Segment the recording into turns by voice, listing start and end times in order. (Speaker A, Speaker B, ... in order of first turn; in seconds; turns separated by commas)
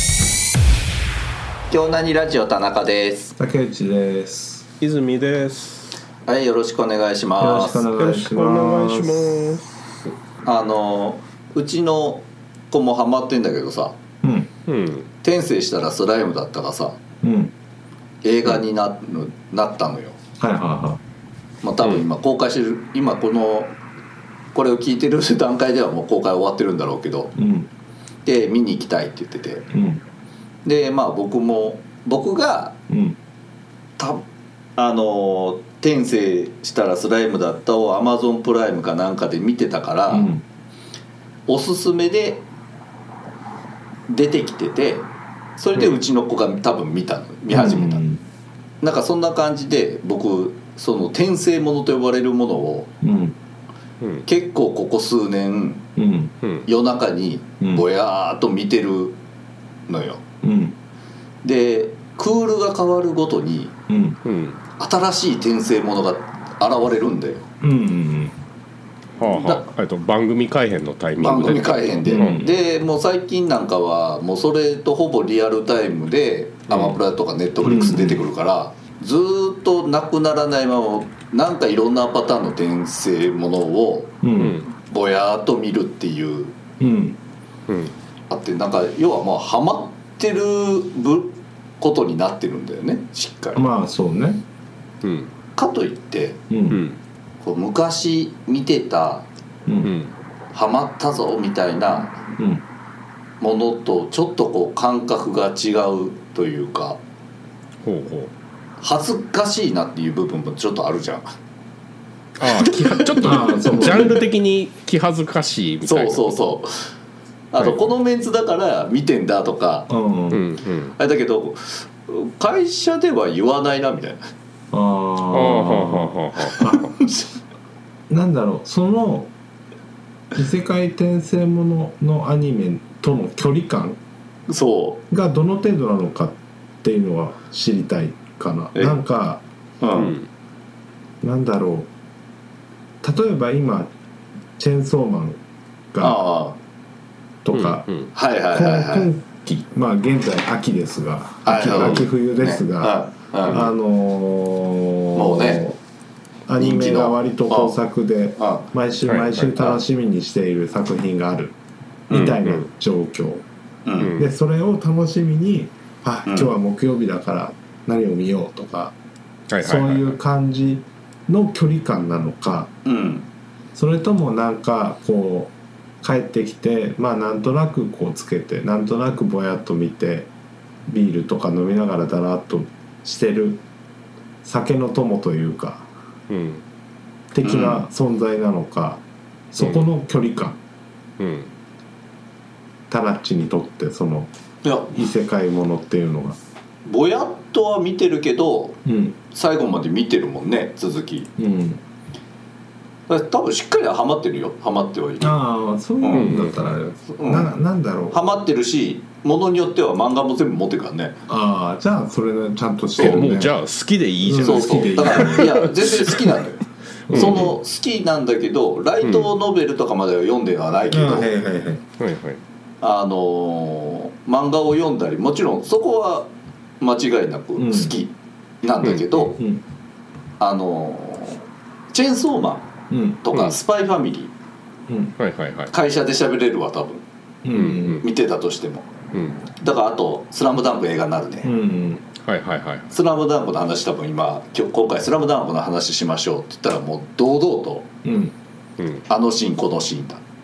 Speaker A: 1.7-3.4, Speaker B: 3.4-4.7, Speaker C: 4.8-5.9, Speaker A: 6.3-7.9, Speaker B: 7.4-9.6, Speaker C: 7.8-9.7, Speaker A: 10.4-14.0, Speaker B: 14.2-14.5, Speaker C: 14.7-15.1, Speaker A: 15.2-17.0, Speaker B: 17.2-17.5, Speaker A: 18.2-20.2, Speaker B: 20.4-21.0, Speaker A: 21.6-23.8, Speaker A: 24.5-27.3, Speaker B: 27.4-27.7, Speaker A: 28.2-29.7, Speaker B: 29.7-30.0, Speaker A: 30.6-32.8, Speaker B: 32.9-33.2, Speaker A: 34.8-40.3, Speaker B: 40.1-40.4, Speaker A: 41.5-42.4, Speaker A: 44.1-48.0, Speaker B: 47.5-48.2, Speaker A: 48.8-52.9, Speaker B: 53.0-53.4, Speaker C: 54.0-54.3, Speaker A: 54.3-55.9, Speaker B: 56.0-56.3, Speaker C: 56.4-56.7, Speaker A: 56.7-59.2, Speaker A: 59.9-60.2, Speaker B: 60.4-60.8, Speaker A: 61.4-63.7, Speaker B: 63.9-64.2, Speaker C: 64.2-64.6, Speaker A: 64.8-67.5, Speaker B: 67.6-68.4, Speaker C: 69.2-72.4, Speaker A: 69.2-69.7, Speaker A: 71.2-84.2, Speaker B: 72.1-72.6, Speaker C: 76.7-77.0, Speaker B: 77.6-78.3, Speaker B: 84.2-84.6, Speaker C: 84.4-84.7, Speaker A: 84.9-86.6, Speaker B: 86.8-87.2, Speaker C: 87.7-87.9, Speaker A: 88.3-93.6, Speaker B: 93.5-94.4, Speaker C: 95.0-95.3, Speaker A: 95.6-96.4, Speaker B: 96.5-96.8, Speaker C: 96.7-97.0, Speaker A: 97.4-99.3, Speaker B: 99.7-99.9, Speaker C: 99.8-100.2, Speaker A: 100.5-102.2, Speaker B: 102.4-102.6, Speaker A: 103.4-107.0, Speaker C: 107.8-108.3, Speaker A: 108.8-111.3, Speaker C: 112.4-116.3, Speaker A: 112.5-114.2, Speaker B: 113.2-114.2, Speaker A: 115.9-116.9, Speaker A: 117.5-119.9, Speaker C: 117.6-117.9, Speaker B: 119.9-120.4, Speaker C: 120.3-121.0, Speaker A: 121.0-124.3, Speaker B: 124.7-126.8, Speaker C: 125.3-126.9, Speaker A: 126.6-127.3, Speaker B: 128.1-129.3, Speaker B: 130.3-134.0, Speaker A: 134.5-135.0, Speaker B: 135.1-139.4, Speaker A: 139.8-140.2, Speaker C: 140.0-140.3, Speaker B: 141.2-141.9, Speaker B: 143.0-143.9, Speaker B: 144.6-145.4, Speaker B: 145.9-146.2, Speaker A: 146.0-146.6, Speaker B: 147.4-147.9, Speaker C: 147.5-148.1, Speaker A: 148.1-149.1, Speaker B: 148.5-155.8, Speaker A: 151.4-153.7, Speaker C: 151.7-152.0, Speaker A: 155.1-155.6, Speaker B: 156.5-161.6, Speaker A: 156.6-157.8, Speaker A: 158.4-158.7, Speaker C: 159.1-159.6, Speaker B: 162.1-163.4, Speaker C: 162.1-162.7, Speaker A: 163.9-164.1, Speaker C: 164.0-164.3, Speaker B: 164.2-168.9, Speaker A: 166.3-166.5, Speaker C: 169.5-170.2, Speaker B: 169.6-172.7, Speaker A: 172.8-173.3, Speaker B: 173.8-180.3, Speaker B: 180.9-183.6, Speaker B: 184.4-185.9, Speaker C: 186.3-186.7, Speaker B: 187.3-190.6, Speaker A: 187.4-187.8, Speaker C: 189.6-189.9, Speaker C: 191.2-191.5, Speaker B: 192.9-194.3, Speaker A: 194.6-195.0, Speaker B: 194.9-196.4, Speaker A: 196.8-198.8, Speaker B: 198.8-199.2, Speaker A: 199.3-201.3, Speaker B: 201.4-201.8, Speaker A: 203.1-205.4, Speaker B: 205.2-208.2, Speaker A: 206.0-206.3, Speaker C: 206.1-206.8, Speaker A: 207.1-207.5, Speaker A: 208.1-211.2, Speaker B: 211.3-213.6, Speaker C: 213.0-216.2, Speaker B: 214.2-215.6, Speaker A: 214.4-221.3, Speaker B: 217.1-217.5, Speaker C: 217.1-217.6, Speaker C: 219.0-219.3, Speaker B: 220.9-221.8, Speaker C: 222.0-222.4, Speaker A: 222.8-229.4, Speaker B: 227.6-227.9, Speaker C: 228.8-229.3, Speaker B: 229.4-229.6, Speaker A: 230.4-234.3, Speaker B: 232.9-233.2, Speaker B: 234.9-235.1, Speaker C: 235.2-235.7, Speaker A: 235.7-237.1, Speaker B: 237.4-238.1, Speaker C: 237.5-238.1, Speaker A: 238.0-238.9, Speaker C: 239.1-239.4, Speaker A: 239.6-241.5, Speaker B: 241.4-242.1, Speaker C: 242.2-242.9, Speaker A: 242.9-247.9, Speaker B: 248.0-248.3, Speaker C: 248.8-249.0, Speaker A: 249.1-250.2